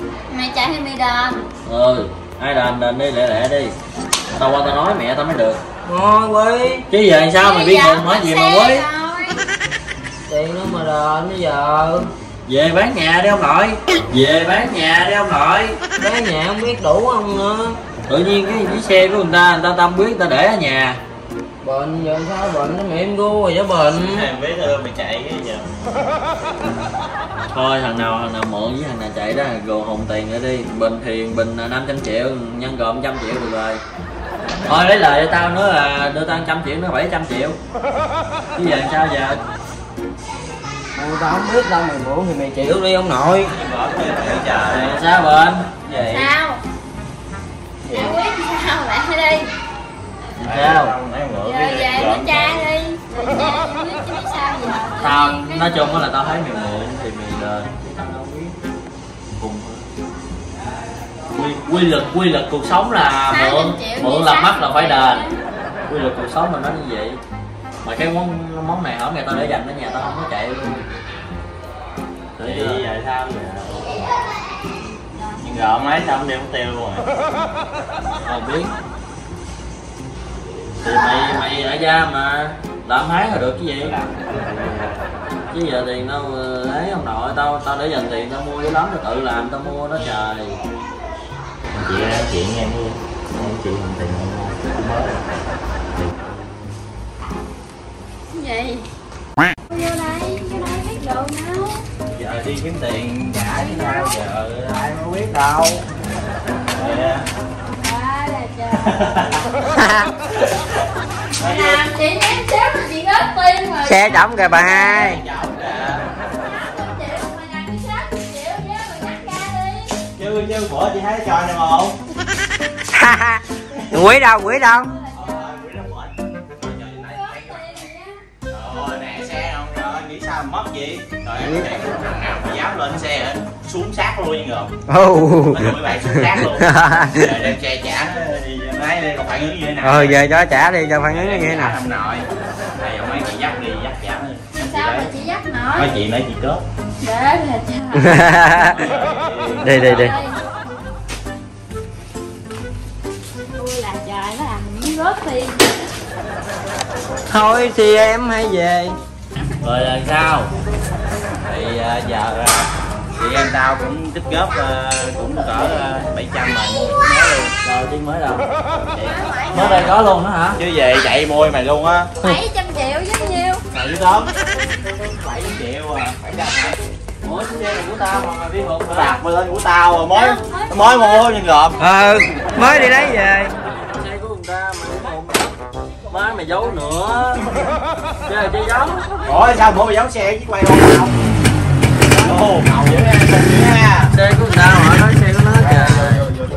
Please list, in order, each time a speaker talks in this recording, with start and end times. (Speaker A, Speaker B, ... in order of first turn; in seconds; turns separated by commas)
Speaker A: 0.3-1.5, Speaker B: 1.6-3.8, Speaker B: 4.3-5.6, Speaker C: 5.8-6.9, Speaker B: 6.9-8.9, Speaker A: 7.4-9.5, Speaker C: 10.2-12.1, Speaker B: 12.5-15.8, Speaker C: 16.0-17.8, Speaker B: 18.1-21.0, Speaker C: 21.6-24.3, Speaker D: 23.9-25.7, Speaker B: 27.5-33.8, Speaker B: 34.7-37.6, Speaker B: 38.5-39.4, Speaker C: 41.0-43.5, Speaker D: 43.4-45.0, Speaker B: 44.7-45.7, Speaker D: 45.8-46.3, Speaker A: 46.0-46.6, Speaker D: 47.8-48.2, Speaker A: 47.9-49.5, Speaker B: 50.4-50.9, Speaker D: 50.4-52.7, Speaker A: 51.4-55.7, Speaker B: 55.0-58.6, Speaker B: 59.3-59.8, Speaker B: 61.3-65.2, Speaker A: 63.3-65.4, Speaker B: 65.9-67.2, Speaker B: 67.8-70.9, Speaker B: 72.4-72.8, Speaker D: 72.4-74.0, Speaker D: 75.4-77.1, Speaker B: 78.2-78.7, Speaker B: 80.8-84.0, Speaker D: 83.8-85.1, Speaker B: 85.5-90.6, Speaker D: 91.7-95.2, Speaker A: 98.3-98.9, Speaker A: 99.7-101.8, Speaker D: 102.1-105.8, Speaker A: 103.5-104.2, Speaker D: 106.7-107.3, Speaker A: 107.8-109.0, Speaker D: 108.8-109.5, Speaker C: 109.6-110.1, Speaker A: 111.4-115.2, Speaker D: 111.4-111.8, Speaker C: 113.8-115.2, Speaker D: 114.7-116.0, Speaker A: 116.4-120.0, Speaker D: 120.1-122.0, Speaker C: 122.9-124.9, Speaker D: 123.7-124.0, Speaker A: 124.8-125.6, Speaker D: 125.1-127.8, Speaker A: 126.9-128.2, Speaker D: 128.5-134.7, Speaker C: 131.4-131.8, Speaker C: 134.9-137.4, Speaker D: 135.5-140.4, Speaker C: 139.8-141.8, Speaker D: 141.1-142.3, Speaker D: 142.8-145.1, Speaker A: 144.6-145.9, Speaker D: 145.7-146.6, Speaker A: 147.0-148.4, Speaker C: 147.9-148.9, Speaker D: 148.5-150.1, Speaker A: 149.5-150.4, Speaker B: 149.7-150.1, Speaker A: 153.6-155.9, Speaker C: 157.3-159.0, Speaker B: 159.6-160.5, Speaker D: 161.5-167.5, Speaker B: 167.6-168.5, Speaker D: 168.8-170.0, Speaker A: 169.0-169.9, Speaker B: 169.5-170.6, Speaker D: 170.6-172.1, Speaker A: 172.2-173.6, Speaker D: 173.7-174.3, Speaker D: 175.1-176.8, Speaker B: 177.2-179.2, Speaker D: 178.9-181.8, Speaker A: 180.1-181.3, Speaker C: 181.8-183.5, Speaker B: 182.5-185.5, Speaker B: 186.1-187.5, Speaker B: 188.3-189.3, Speaker D: 189.2-191.1, Speaker D: 192.2-194.1, Speaker B: 194.1-196.3, Speaker D: 195.6-196.3